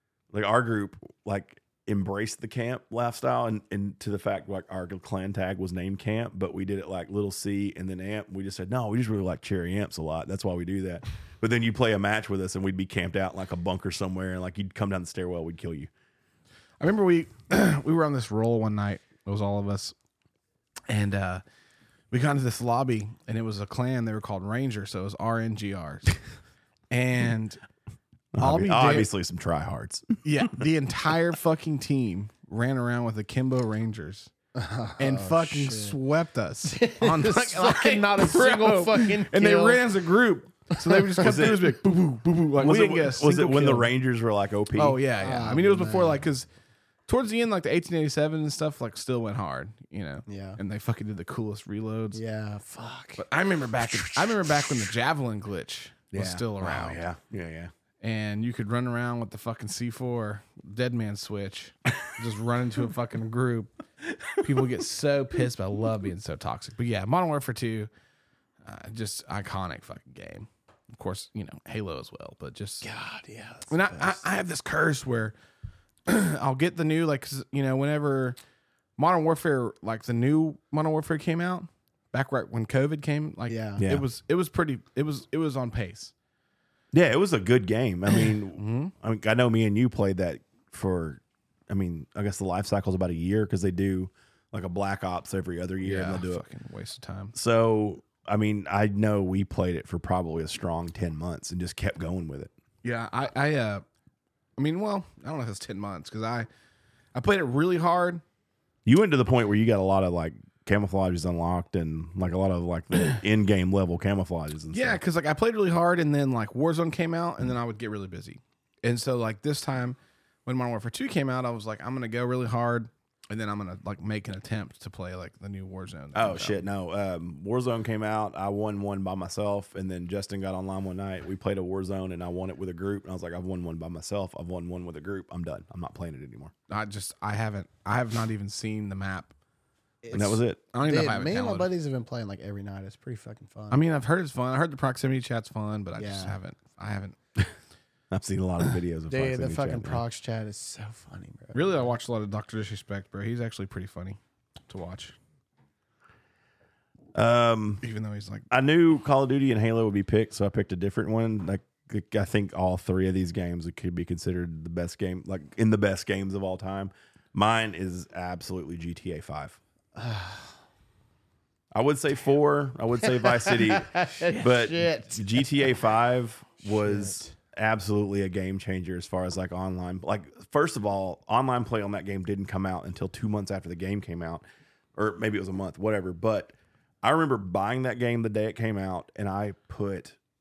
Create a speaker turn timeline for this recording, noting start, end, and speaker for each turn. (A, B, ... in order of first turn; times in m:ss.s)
0:00.3-0:15.9 A
0:16.8-0:19.9 B
0:20.9-0:21.4 B
0:22.1-0:26.1 B
0:26.9-0:27.6 B
0:28.4-0:30.1 A
0:28.4-0:29.1 B
0:30.2-0:34.3 B
0:34.5-0:36.0 C
0:35.0-0:43.9 B
0:36.6-0:39.8 C
0:40.8-0:41.3 C
0:41.2-0:41.7 A
0:42.6-0:45.0 A
0:44.8-0:46.5 B
0:45.2-0:46.3 C
0:47.1-0:52.2 B
0:50.3-0:50.6 C
0:52.1-0:53.2 C
0:53.2-0:57.0 B
0:54.0-0:54.5 C
0:56.1-0:57.7 A
0:58.0-1:03.8 B
1:04.4-1:07.9 B
1:08.6-1:12.9 B
1:12.8-1:14.2 C
1:13.7-1:15.3 B
1:16.1-1:18.4 B
1:19.0-1:26.1 B
1:23.5-1:23.8 C
1:23.8-1:24.0 A
1:26.9-1:36.4 A
1:28.5-1:28.9 B
1:35.8-1:37.3 B
1:37.3-1:42.5 A
1:42.8-1:43.8 B
1:44.6-1:46.5 B
1:47.1-1:48.2 B
1:48.8-1:55.0 A
1:54.7-2:06.7 B
2:06.1-2:16.5 A
2:16.7-2:19.3 B
2:20.0-2:23.8 C
2:20.1-2:20.7 A
2:20.7-2:21.7 B
2:23.7-2:27.2 B
2:26.0-2:26.4 C
2:28.1-2:30.0 A
2:29.1-2:31.9 C
2:31.5-2:35.1 B
2:37.1-2:37.8 A
2:37.8-2:38.4 B
2:38.5-2:49.6 A
2:50.0-2:50.5 C
2:51.7-3:04.4 A
2:53.0-2:55.7 C
2:56.6-2:57.3 C
3:04.9-3:10.2 A